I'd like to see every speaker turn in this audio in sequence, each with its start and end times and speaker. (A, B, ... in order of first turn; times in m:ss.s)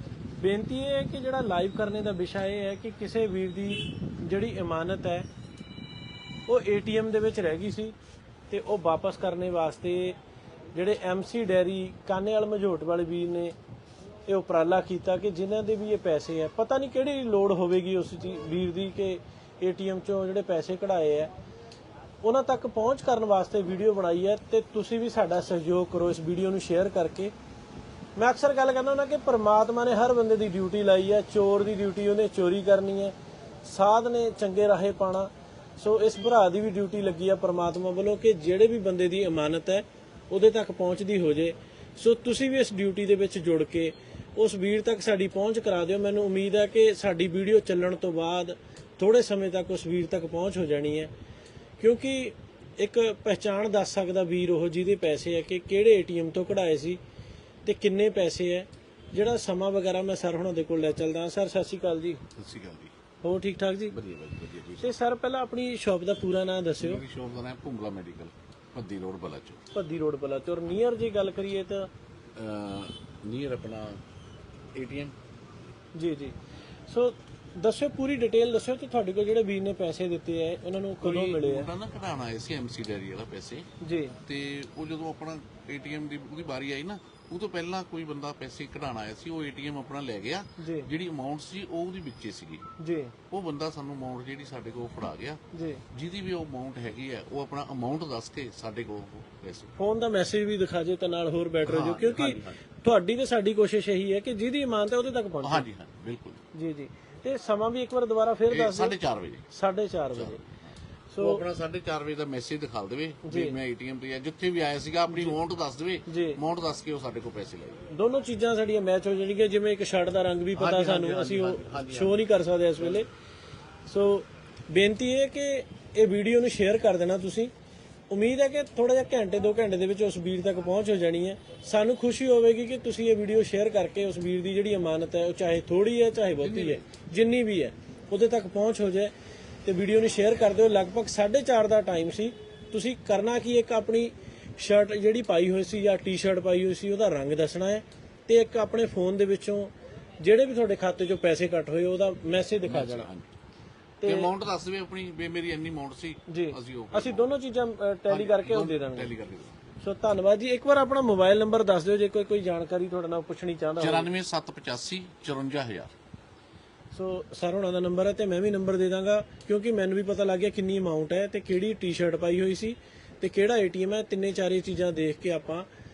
0:00.4-0:05.3 A
0:06.5-0:07.9 A
0:08.5-0:10.2 A
0:10.7-0:13.5 A
0:14.2-0:21.3 A
0:22.2-0:27.3 A
0:28.2-0:51.1 A
0:51.8-0:57.0 A
0:57.6-1:02.2 A
1:02.4-1:02.9 B
1:03.2-1:04.0 A
1:03.9-1:04.9 B
1:04.8-1:07.0 A
1:06.8-1:09.6 B
1:09.7-1:11.9 A
1:12.4-1:14.0 B
1:14.7-1:15.1 B
1:15.9-1:16.4 A
1:16.9-1:21.7 A
1:21.0-1:23.7 B
1:23.8-1:24.2 A
1:24.3-1:32.6 B
1:30.6-1:30.9 A
1:32.8-1:33.1 A
1:33.3-1:35.4 B
1:35.5-1:35.8 A
1:35.9-1:39.7 B
1:39.8-1:45.6 A
1:41.6-1:42.6 B
1:45.4-1:46.4 B
1:46.5-1:49.0 A
1:48.5-1:49.4 B
1:49.5-1:50.4 A
1:50.1-1:50.6 B
1:51.1-1:51.4 A
1:51.2-1:57.9 B
1:53.2-1:53.6 A
1:55.1-1:55.4 A
1:56.1-1:56.4 A
1:57.9-2:03.1 A
2:00.5-2:02.2 B
2:03.9-2:07.5 A
2:08.1-2:19.1 A
2:16.4-2:16.8 B
2:19.6-2:33.1 A
2:32.6-2:33.3 B
2:34.0-2:34.3 A
2:34.0-2:37.3 B
2:36.3-2:39.1 A
2:38.1-2:39.6 B
2:39.8-2:44.1 A
2:43.8-2:45.9 B
2:46.9-2:55.7 A